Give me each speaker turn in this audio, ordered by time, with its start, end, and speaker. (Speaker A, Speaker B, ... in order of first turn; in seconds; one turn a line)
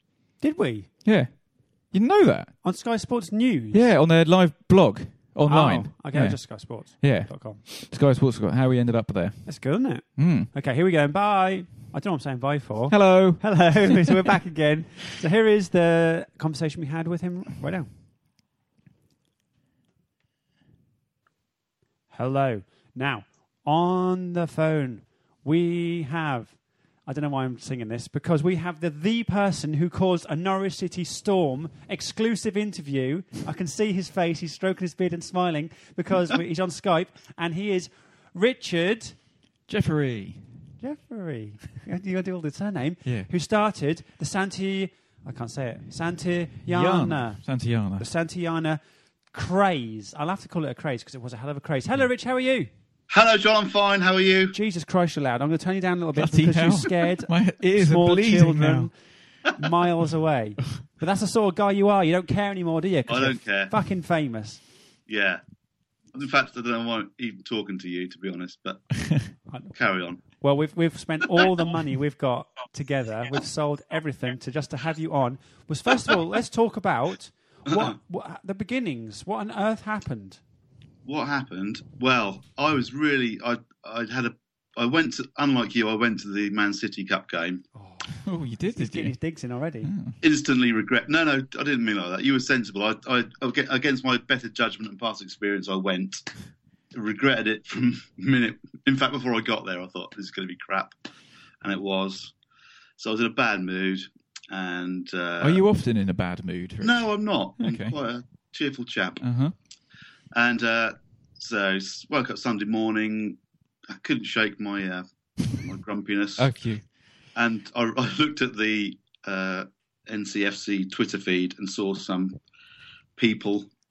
Speaker A: 0.4-0.9
Speaker B: 1.0-1.3
Speaker B: 1.9-2.5
Speaker A: 2.6-3.9
Speaker B: 3.7-9.5
Speaker A: 5.5-7.6
Speaker A: 9.4-17.9
Speaker B: 10.2-10.5
Speaker B: 12.9-14.3
Speaker A: 22.1-39.1
Speaker B: 39.7-40.4
Speaker A: 40.8-47.4
Speaker B: 46.7-48.0
Speaker A: 48.0-48.8
Speaker A: 49.3-52.7
Speaker C: 53.1-54.5
Speaker A: 54.5-58.9
Speaker B: 56.1-58.9
Speaker A: 59.5-64.6
Speaker C: 63.1-63.8
Speaker C: 65.1-65.4
Speaker C: 66.1-68.9
Speaker A: 69.5-80.4
Speaker C: 69.7-70.2
Speaker C: 81.0-87.6
Speaker A: 87.7-89.9
Speaker B: 88.2-89.1
Speaker B: 89.8-90.2
Speaker C: 90.2-96.2
Speaker C: 96.9-101.0
Speaker C: 101.6-102.3
Speaker C: 103.0-105.6
Speaker B: 105.4-107.0
Speaker C: 106.8-109.2
Speaker B: 107.6-107.9
Speaker B: 109.2-109.5
Speaker C: 110.3-113.4
Speaker C: 113.9-116.5
Speaker B: 116.4-116.8
Speaker C: 117.3-122.4
Speaker C: 123.2-123.7